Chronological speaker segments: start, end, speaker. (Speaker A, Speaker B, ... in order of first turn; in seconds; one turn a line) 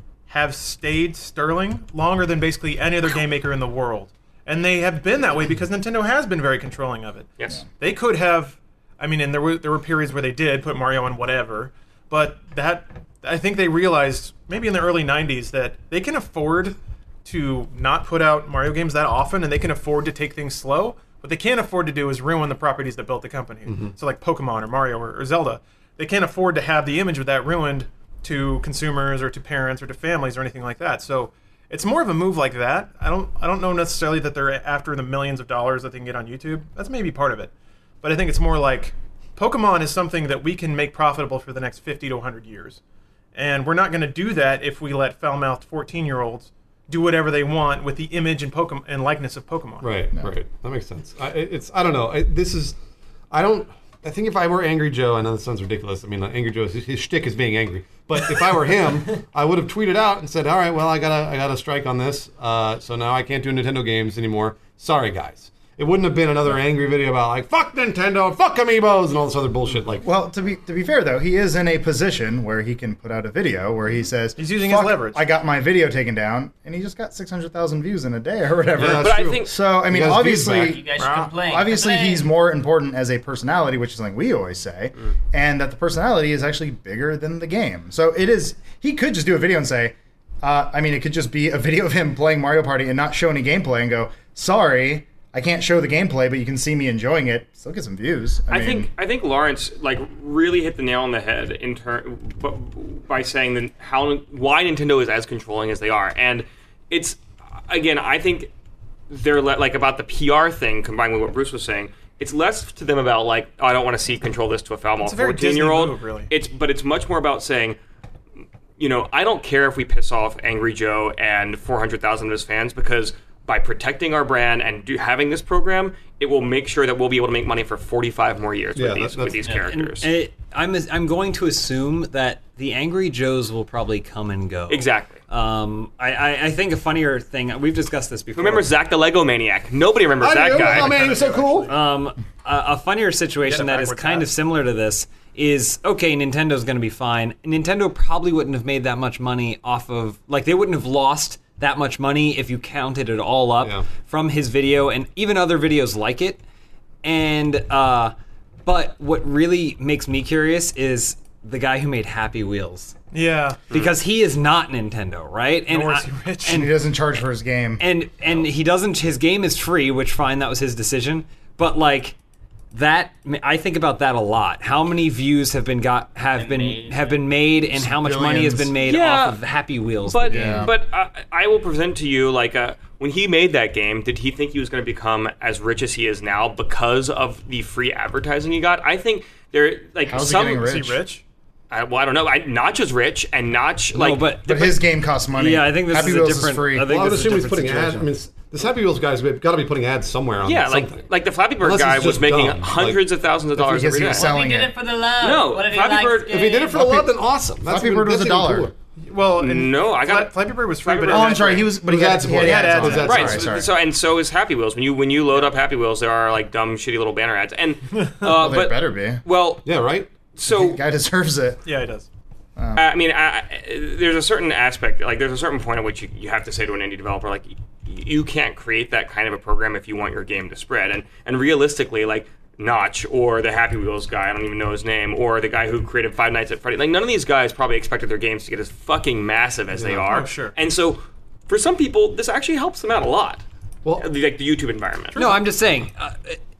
Speaker A: 0.3-42.8
Speaker B: 23.7-23.9
Speaker A: 43.3-49.9
Speaker B: 49.8-52.8
Speaker B: 53.3-70.0
Speaker C: 70.0-98.9
Speaker A: 74.3-75.2
Speaker B: 78.8-80.8
Speaker D: 79.0-79.5
Speaker E: 80.6-82.3
Speaker A: 81.0-81.3
Speaker D: 98.5-108.5
Speaker D: 109.1-117.8
Speaker A: 115.0-116.3
Speaker D: 118.8-130.1
Speaker B: 128.8-129.4
Speaker F: 129.5-138.7
Speaker D: 134.7-135.2
Speaker D: 138.3-141.3
Speaker B: 140.2-141.7
Speaker A: 140.5-141.7
Speaker F: 141.7-156.4
Speaker A: 143.4-144.2
Speaker F: 157.0-158.1
Speaker F: 158.7-162.9
Speaker A: 163.1-163.6
Speaker F: 163.7-166.7
Speaker A: 165.7-166.7
Speaker C: 166.5-167.8
Speaker F: 167.8-172.1
Speaker F: 172.7-180.7
Speaker E: 176.3-177.2
Speaker C: 177.7-178.7
Speaker D: 178.8-179.4
Speaker D: 180.1-190.7
Speaker C: 180.3-180.7
Speaker C: 190.0-191.0
Speaker A: 190.5-191.2
Speaker D: 191.7-194.3
Speaker F: 193.9-198.1
Speaker C: 194.4-197.0
Speaker B: 196.8-201.0
Speaker D: 200.4-204.4
Speaker B: 201.6-203.0
Speaker C: 203.6-204.7
Speaker E: 204.0-207.1
Speaker D: 205.2-206.4
Speaker B: 206.3-208.7
Speaker C: 207.6-208.7
Speaker A: 209.0-213.2
Speaker D: 209.4-211.7
Speaker C: 211.1-213.7
Speaker B: 211.8-213.5
Speaker D: 213.0-219.7
Speaker C: 218.2-219.2
Speaker B: 219.6-220.1
Speaker D: 220.3-220.8
Speaker C: 220.4-221.6
Speaker A: 221.6-222.1
Speaker C: 222.6-222.8
Speaker D: 222.7-243.4
Speaker B: 239.7-240.1
Speaker A: 240.1-240.6
Speaker D: 244.0-245.2
Speaker F: 245.1-246.4